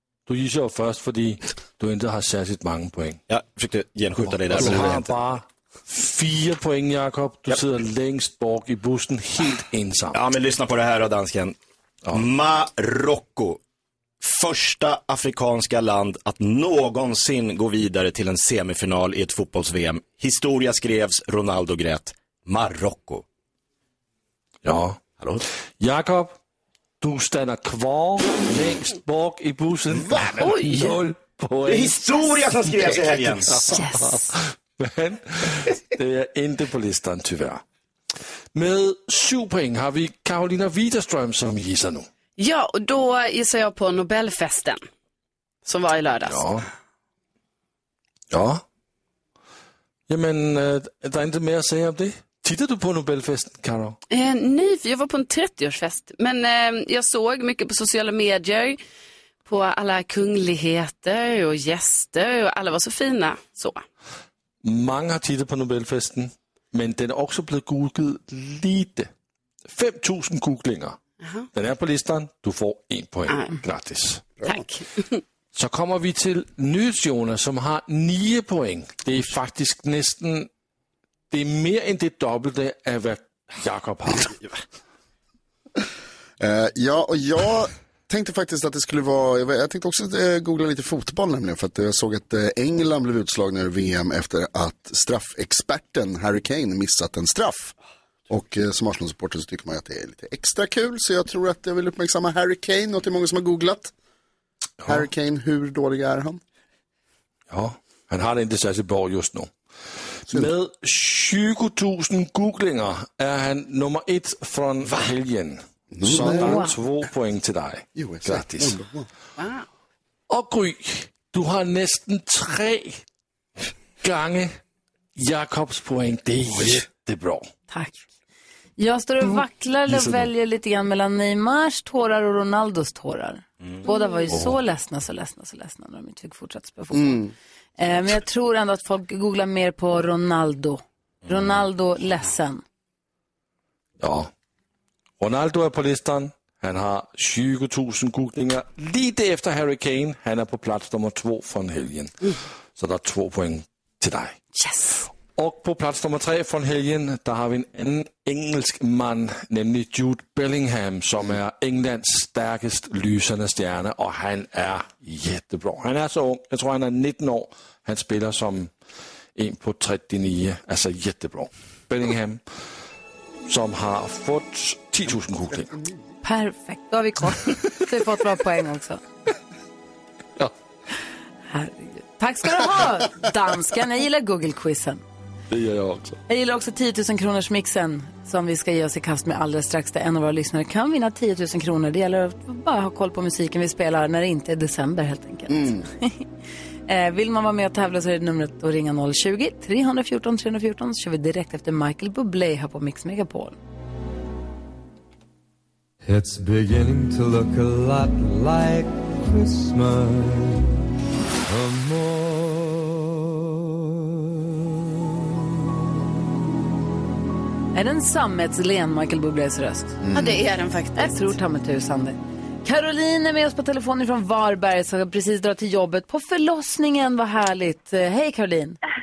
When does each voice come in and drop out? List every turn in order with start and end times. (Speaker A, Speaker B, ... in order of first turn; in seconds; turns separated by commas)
Speaker A: 0.3-3.2, Speaker B: 3.3-5.2, Speaker A: 4.2-10.2, Speaker B: 10.1-11.6, Speaker B: 12.1-13.6, Speaker B: 14.2-23.2, Speaker A: 24.6-25.0, Speaker B: 25.2-25.4, Speaker A: 25.8-26.4, Speaker A: 27.0-37.6, Speaker B: 29.9-30.8, Speaker C: 30.4-30.9, Speaker B: 31.6-33.8, Speaker A: 38.5-42.1, Speaker C: 42.4-44.8, Speaker C: 45.6-46.5, Speaker A: 46.2-46.6, Speaker A: 48.3-48.6, Speaker A: 50.1-54.0, Speaker C: 54.1-58.8, Speaker C: 59.5-63.8, Speaker A: 64.6-69.1, Speaker A: 69.7-71.0, Speaker C: 71.2-71.5, Speaker A: 71.5-74.2, Speaker C: 73.3-73.5, Speaker D: 74.4-74.7, Speaker C: 74.4-75.2, Speaker A: 75.5-80.5, Speaker A: 81.3-84.3, Speaker D: 86.4-97.7, Speaker D: 98.3-103.9, Speaker A: 104.8-105.1, Speaker D: 104.9-106.4, Speaker A: 107.5-109.5, Speaker A: 110.3-118.8, Speaker B: 114.8-115.1, Speaker D: 115.9-116.6, Speaker E: 116.3-116.8, Speaker D: 118.0-119.1, Speaker C: 119.4-119.7, Speaker A: 120.3-123.0, Speaker A: 124.0-124.5, Speaker A: 125.2-127.5, Speaker E: 127.7-128.0, Speaker E: 128.8-137.2, Speaker A: 129.9-130.3, Speaker A: 134.3-134.6, Speaker D: 136.9-137.3, Speaker E: 137.8-142.6, Speaker B: 141.2-141.6, Speaker A: 144.0-144.3, Speaker A: 145.2-154.4, Speaker C: 154.6-155.0, Speaker A: 155.3-168.7, Speaker A: 169.3-172.4, Speaker A: 173.5-175.7, Speaker E: 176.2-179.0, Speaker E: 181.5-185.0, Speaker A: 185.5-186.2, Speaker E: 186.3-196.2, Speaker D: 195.5-195.8, Speaker E: 196.9-203.6, Speaker F: 206.0-210.5, Speaker F: 211.5-212.8, Speaker E: 217.7-220.0, Speaker D: 220.0-220.4, Speaker C: 220.1-221.3, Speaker E: 221.0-228.8